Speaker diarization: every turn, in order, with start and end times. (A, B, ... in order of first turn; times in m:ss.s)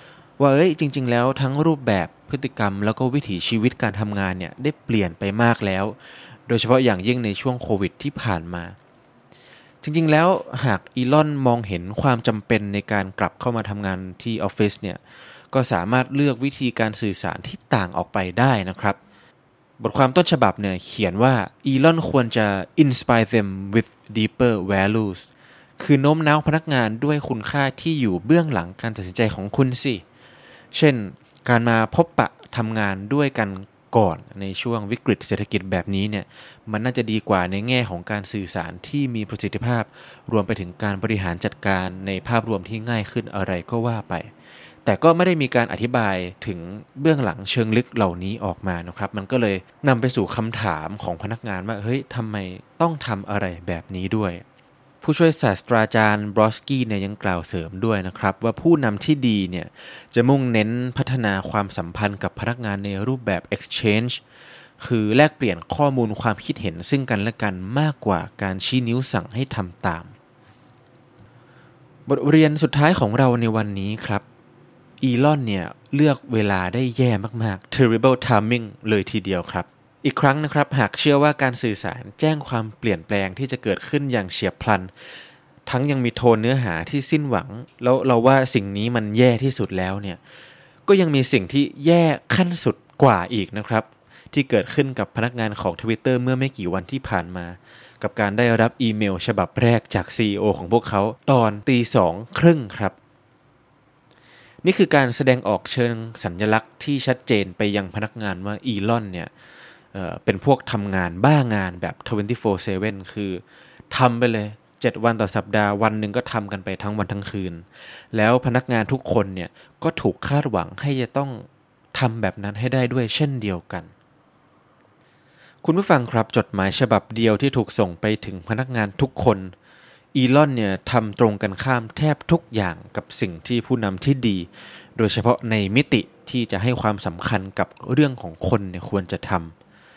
0:00.4-0:08.8 A
0:09.8-0:15.0 A
0:15.5-0:19.0 A
0:19.8-0:25.3 A
0:25.8-0:30.0 A
0:30.7-0:44.3 A
0:44.8-0:54.4 A
0:55.0-1:04.2 A
1:04.8-1:10.1 A
1:12.1-1:14.2 A
1:15.0-1:24.9 A
1:25.7-1:30.2 A
1:30.8-1:43.0 A
1:44.6-1:49.3 A
1:49.9-2:03.9 A
2:05.6-2:09.5 A
2:10.1-2:19.5 A